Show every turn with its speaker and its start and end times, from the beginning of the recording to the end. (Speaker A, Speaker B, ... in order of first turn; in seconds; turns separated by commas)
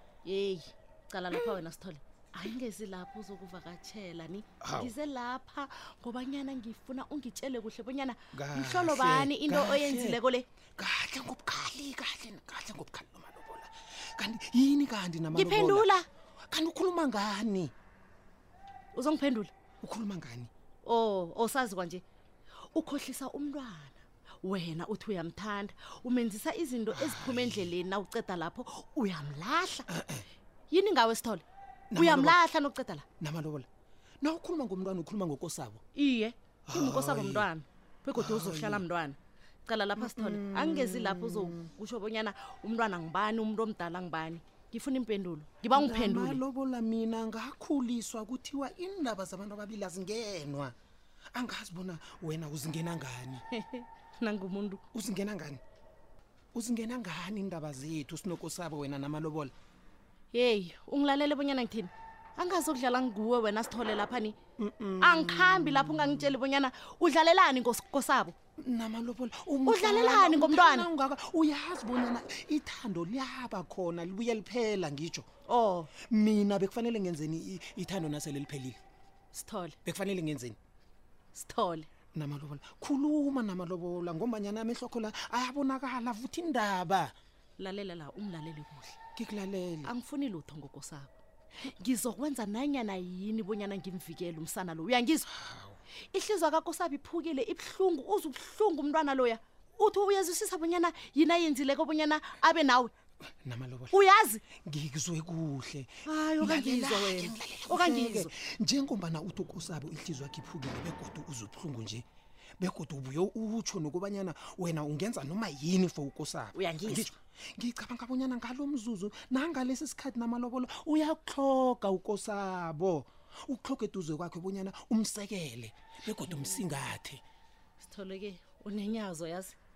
Speaker A: 0.2-10.5, Speaker B: 4.6-5.0, Speaker B: 8.3-10.2, Speaker B: 10.8-15.9, Speaker A: 15.3-16.1, Speaker B: 16.5-17.7, Speaker A: 18.9-19.5, Speaker B: 19.8-20.5, Speaker A: 20.8-22.0, Speaker A: 22.7-29.9, Speaker B: 26.9-27.7, Speaker B: 29.9-30.3, Speaker A: 30.7-33.1, Speaker B: 31.9-32.5, Speaker B: 33.2-33.7, Speaker B: 34.2-35.8, Speaker A: 35.9-46.4, Speaker B: 36.7-37.5, Speaker B: 38.1-38.9, Speaker B: 40.0-41.7, Speaker B: 45.7-50.8, Speaker B: 51.3-53.4, Speaker A: 53.5-54.8, Speaker B: 54.9-55.6, Speaker B: 56.5-59.5, Speaker A: 60.3-64.4, Speaker B: 64.6-66.4, Speaker A: 65.0-68.3, Speaker B: 68.6-75.3, Speaker A: 69.6-70.9, Speaker A: 75.5-75.9, Speaker B: 76.0-78.8, Speaker A: 79.3-79.8, Speaker B: 79.8-80.6, Speaker A: 81.3-81.9, Speaker B: 82.1-87.2, Speaker A: 87.6-89.0, Speaker B: 89.2-89.9, Speaker A: 89.8-91.1, Speaker A: 91.7-95.3, Speaker B: 95.4-95.8, Speaker A: 96.1-102.9, Speaker B: 103.4-112.1, Speaker A: 103.9-104.4, Speaker A: 106.0-108.3, Speaker B: 112.6-127.2, Speaker A: 116.5-117.1, Speaker A: 126.3-126.6, Speaker A: 127.8-129.6